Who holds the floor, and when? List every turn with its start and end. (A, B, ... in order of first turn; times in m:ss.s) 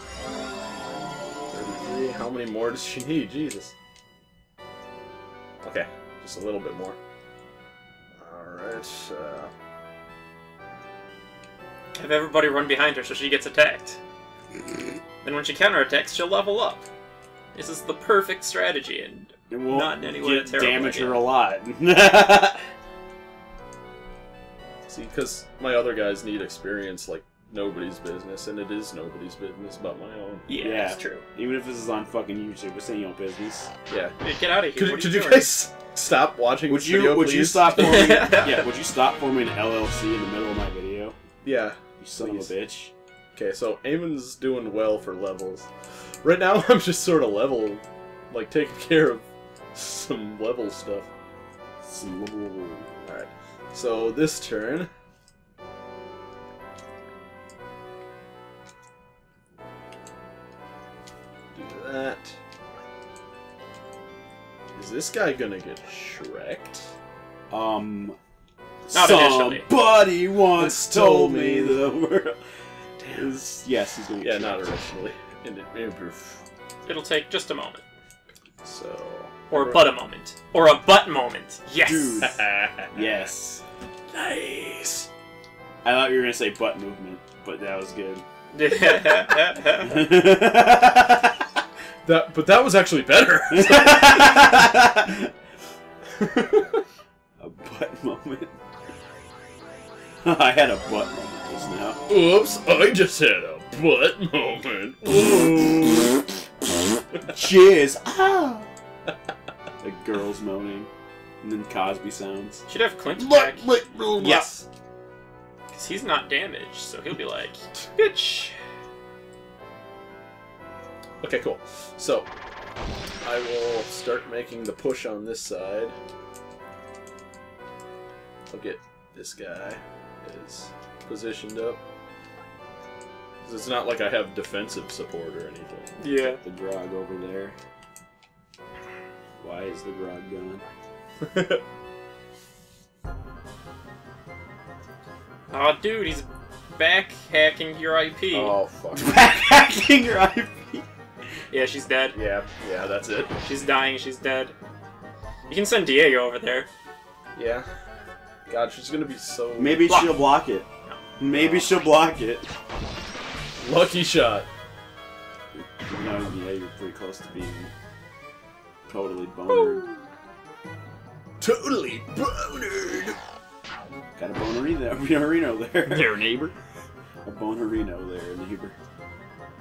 0:01.5-0:03.7 A
0:05.6-0:07.0 A
0:08.2-0:09.5 A
0:11.9-0:14.0 B
0:15.2-0:16.9 B
0:17.5-0:21.2 B
0:19.5-0:22.6 C
0:24.9-0:30.4 A
0:30.5-0:31.2 B
0:30.6-0:33.7 C
0:33.9-0:34.1 A
0:34.2-0:35.5 B
0:34.7-0:38.4 A
0:36.7-0:41.2 C
0:37.7-0:38.6 B
0:41.4-0:42.5 A
0:42.0-0:42.9 C
0:43.4-0:45.7 A
0:46.2-0:51.1 A
0:51.8-0:53.0 C
0:53.0-0:54.9 A
1:01.5-1:02.4 A
1:04.8-1:06.9 A
1:07.5-1:08.2 C
1:08.9-1:12.4 C
1:08.9-1:09.7 B
1:10.6-1:11.8 A
1:13.1-1:14.7 C
1:14.2-1:16.4 A
1:16.9-1:17.8 B
1:18.6-1:19.4 A
1:19.5-1:22.3 B
1:19.5-1:19.8 C
1:21.8-1:22.4 C
1:22.2-1:23.3 A
1:22.9-1:23.6 C
1:24.1-1:25.1 A
1:25.8-1:28.2 C
1:28.5-1:30.0 B
1:29.8-1:31.4 C
1:32.0-1:34.6 A
1:33.5-1:35.3 C
1:36.2-1:36.8 A
1:37.4-1:38.5 C
1:40.2-1:42.0 C
1:42.1-1:46.3 A
1:47.3-1:48.7 C
1:49.8-1:50.9 C
1:51.4-1:52.6 C
1:52.7-1:54.6 B
1:53.2-1:54.4 A
1:55.7-1:58.6 B
2:01.2-2:02.3 A
2:03.2-2:06.0 A
2:08.5-2:11.8 A
2:13.4-2:16.2 A
2:16.0-2:16.4 B
2:16.4-2:17.6 C
2:19.4-2:20.6 C
2:21.2-2:21.6 A
2:25.5-2:28.5 B
2:28.3-2:29.2 A
2:28.9-2:30.9 C
2:31.5-2:32.2 B
2:32.1-2:33.3 A
2:33.4-2:34.6 B
2:35.5-2:36.7 B
2:37.4-2:37.6 A
2:38.5-2:40.0 A
2:39.6-2:40.7 C
2:39.9-2:40.2 B
2:41.2-2:42.5 C
2:41.3-2:41.7 A
2:43.6-2:44.5 A
2:45.9-2:47.7 C
2:48.9-2:49.9 C
2:49.5-2:50.0 B
2:51.4-2:53.2 A
2:54.2-2:56.1 C
2:55.9-2:56.5 A
2:57.2-2:58.8 C